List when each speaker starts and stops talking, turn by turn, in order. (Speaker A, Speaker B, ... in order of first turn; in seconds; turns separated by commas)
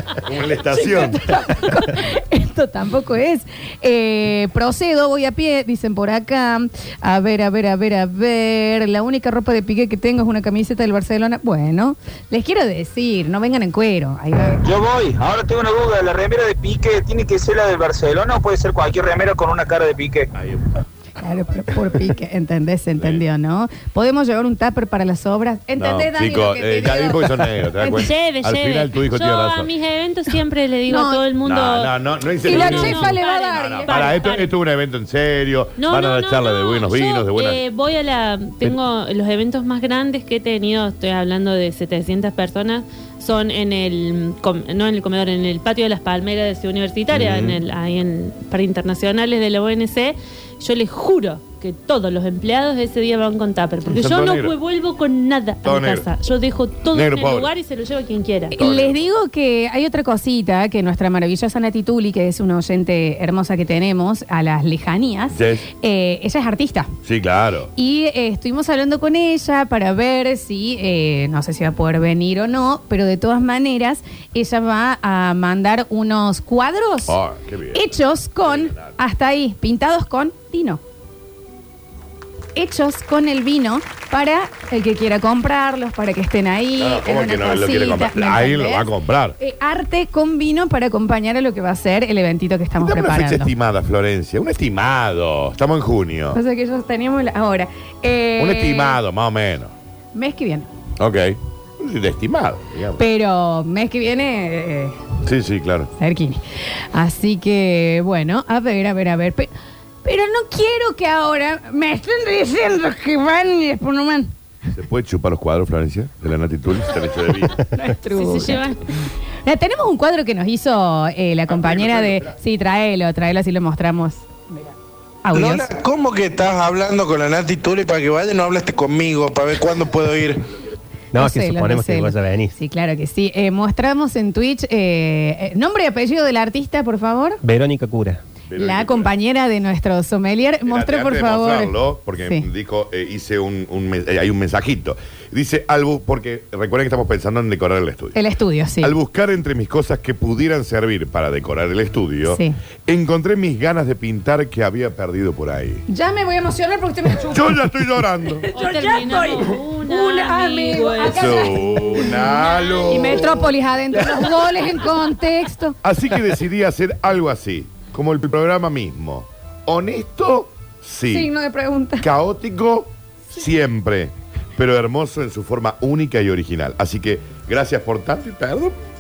Speaker A: 0.2-1.2, Speaker B: 0.7-14.6, Speaker C: 14.6-20.3, Speaker A: 20.4-20.6, Speaker B: 21.2-28.1, Speaker A: 23.0-23.2, Speaker A: 25.8-29.7, Speaker D: 28.0-31.9, Speaker B: 30.9-31.2, Speaker A: 31.4-37.6, Speaker B: 32.4-34.2, Speaker D: 32.4-34.5, Speaker D: 35.8-58.5, Speaker A: 47.1-47.6, Speaker A: 53.9-54.5, Speaker A: 55.6-56.1, Speaker A: 56.9-57.5, Speaker A: 58.5-59.0, Speaker B: 58.6-66.9, Speaker A: 65.3-65.7, Speaker A: 67.0-67.7, Speaker B: 67.8-77.2, Speaker A: 77.1-79.0, Speaker B: 77.7-80.8, Speaker B: 82.6-93.5, Speaker A: 86.8-89.3, Speaker A: 92.8-96.4, Speaker B: 96.3-99.0, Speaker A: 98.4-99.7, Speaker B: 100.1-100.7, Speaker A: 101.0-103.0, Speaker B: 103.0-105.0, Speaker A: 105.2-105.9, Speaker B: 106.0-106.4, Speaker B: 106.9-109.5, Speaker B: 110.0-114.3, Speaker A: 114.8-117.5, Speaker B: 117.6-118.7, Speaker D: 118.1-118.8, Speaker B: 119.5-124.7, Speaker A: 121.5-122.3, Speaker B: 125.2-125.7, Speaker E: 125.3-130.4, Speaker F: 131.1-132.6, Speaker B: 131.2-137.4, Speaker F: 137.4-138.2, Speaker A: 138.5-139.1, Speaker B: 138.6-142.5, Speaker A: 140.7-148.2, Speaker B: 148.1-148.9, Speaker A: 148.8-155.8, Speaker B: 155.9-157.6, Speaker A: 157.3-158.5, Speaker B: 158.3-165.8, Speaker D: 158.6-161.5, Speaker A: 161.1-164.7, Speaker D: 162.4-163.2, Speaker A: 165.8-171.3, Speaker B: 171.1-172.1, Speaker A: 172.0-178.8